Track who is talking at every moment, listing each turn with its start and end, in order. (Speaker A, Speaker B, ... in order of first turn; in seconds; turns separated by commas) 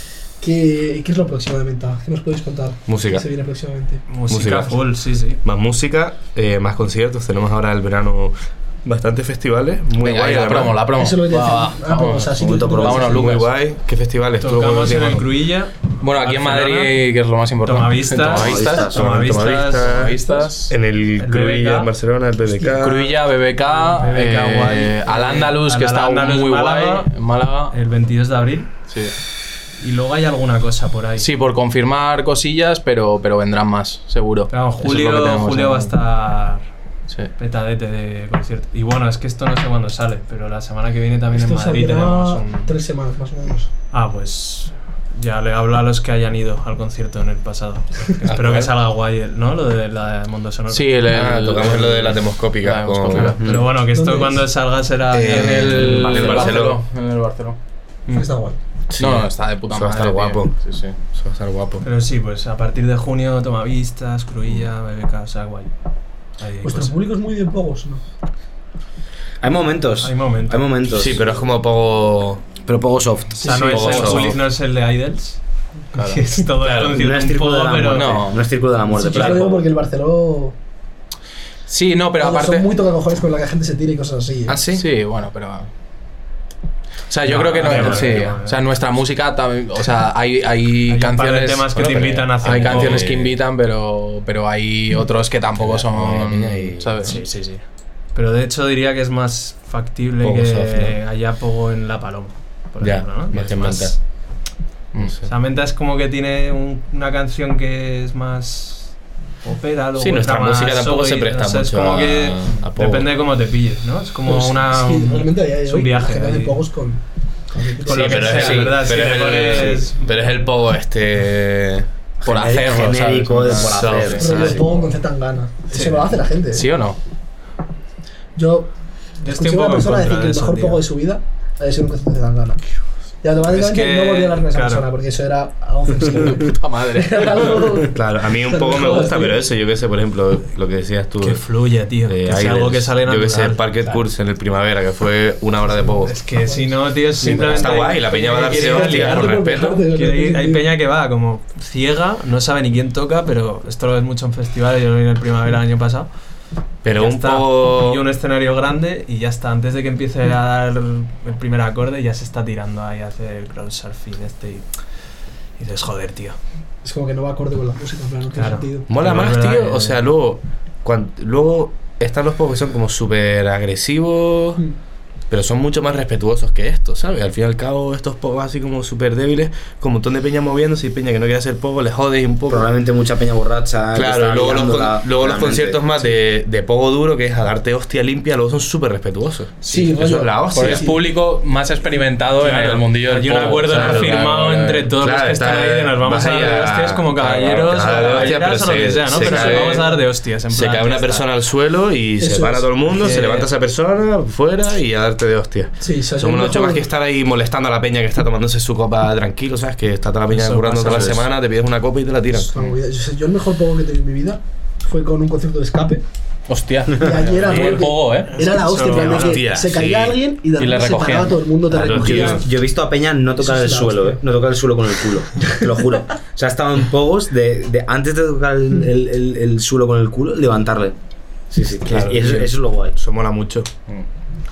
Speaker A: 0.4-4.1, Speaker B: 2.9-3.2, Speaker C: 4.1-5.4, Speaker B: 4.2-10.9, Speaker D: 10.0-13.4, Speaker A: 10.9-13.4, Speaker E: 12.3-13.1, Speaker B: 12.4-15.3, Speaker C: 14.4-17.1, Speaker D: 16.0-18.9, Speaker C: 17.6-20.1, Speaker E: 18.3-19.1, Speaker B: 18.8-23.2, Speaker D: 19.8-20.7, Speaker C: 21.2-21.9, Speaker D: 22.8-27.7, Speaker C: 23.7-28.7, Speaker C: 29.8-31.3, Speaker D: 31.2-35.9, Speaker C: 34.5-36.6, Speaker C: 37.4-42.7, Speaker A: 41.3-43.7, Speaker C: 43.9-51.0, Speaker B: 48.2-48.7, Speaker D: 50.7-53.4, Speaker B: 51.0-53.6, Speaker C: 53.2-56.5, Speaker A: 53.7-54.4, Speaker B: 55.1-56.8, Speaker D: 55.3-57.5, Speaker A: 58.1-58.6, Speaker B: 58.9-61.8, Speaker D: 59.0-60.9, Speaker C: 61.8-65.7, Speaker C: 66.4-66.9, Speaker A: 66.6-68.0, Speaker E: 69.4-71.3, Speaker C: 70.0-70.7, Speaker B: 70.9-72.6, Speaker E: 72.6-74.3, Speaker A: 73.4-74.2, Speaker C: 73.4-75.4, Speaker B: 73.5-74.4, Speaker C: 75.9-78.2, Speaker D: 75.9-76.2, Speaker E: 76.6-79.7, Speaker D: 77.9-78.4, Speaker A: 78.9-80.5, Speaker D: 81.7-82.7, Speaker A: 82.2-84.6, Speaker D: 84.5-85.7, Speaker D: 87.1-97.1, Speaker C: 87.2-88.6, Speaker B: 87.8-88.2, Speaker C: 90.9-93.1, Speaker B: 91.7-93.4, Speaker B: 95.6-97.2, Speaker C: 97.0-104.0, Speaker B: 100.2-101.0, Speaker B: 102.8-104.0, Speaker B: 105.0-105.3, Speaker C: 105.2-116.7, Speaker B: 110.0-113.1, Speaker A: 114.3-118.6, Speaker C: 117.8-120.0, Speaker B: 117.9-121.9, Speaker D: 118.4-118.7, Speaker E: 122.2-124.6, Speaker D: 122.2-124.6, Speaker B: 123.5-124.8, Speaker A: 124.2-126.7, Speaker C: 125.7-126.1, Speaker D: 126.5-127.0, Speaker A: 128.3-128.7, Speaker A: 129.2-132.6, Speaker C: 129.2-130.8, Speaker A: 133.2-139.4, Speaker C: 133.5-134.9, Speaker D: 136.3-137.4, Speaker B: 137.8-141.5, Speaker C: 141.2-144.0, Speaker B: 142.1-146.1, Speaker C: 146.0-149.4, Speaker A: 146.1-146.7, Speaker B: 147.2-149.8, Speaker A: 147.3-150.6, Speaker C: 149.9-156.1, Speaker B: 156.8-158.0, Speaker C: 156.9-164.7, Speaker C: 165.6-166.4, Speaker A: 166.8-168.9, Speaker C: 168.3-170.0, Speaker B: 168.9-174.6, Speaker B: 175.3-182.7, Speaker E: 182.5-185.9, Speaker B: 183.9-191.0, Speaker A: 189.6-191.0, Speaker D: 190.5-194.9, Speaker C: 192.4-201.2, Speaker B: 193.3-194.3, Speaker B: 194.9-199.9, Speaker A: 197.9-198.3, Speaker A: 199.1-200.1, Speaker B: 200.5-212.7, Speaker A: 202.2-202.8, Speaker C: 202.8-203.5, Speaker A: 205.8-206.9, Speaker C: 210.3-211.3, Speaker A: 212.3-216.0, Speaker D: 216.5-218.3, Speaker A: 216.9-222.4, Speaker C: 218.2-219.4, Speaker B: 218.9-220.2, Speaker D: 220.6-221.4, Speaker B: 221.7-222.4, Speaker E: 221.7-230.9, Speaker A: 223.4-224.2, Speaker E: 231.5-232.9, Speaker D: 231.9-232.2, Speaker B: 232.0-232.4, Speaker B: 232.9-233.7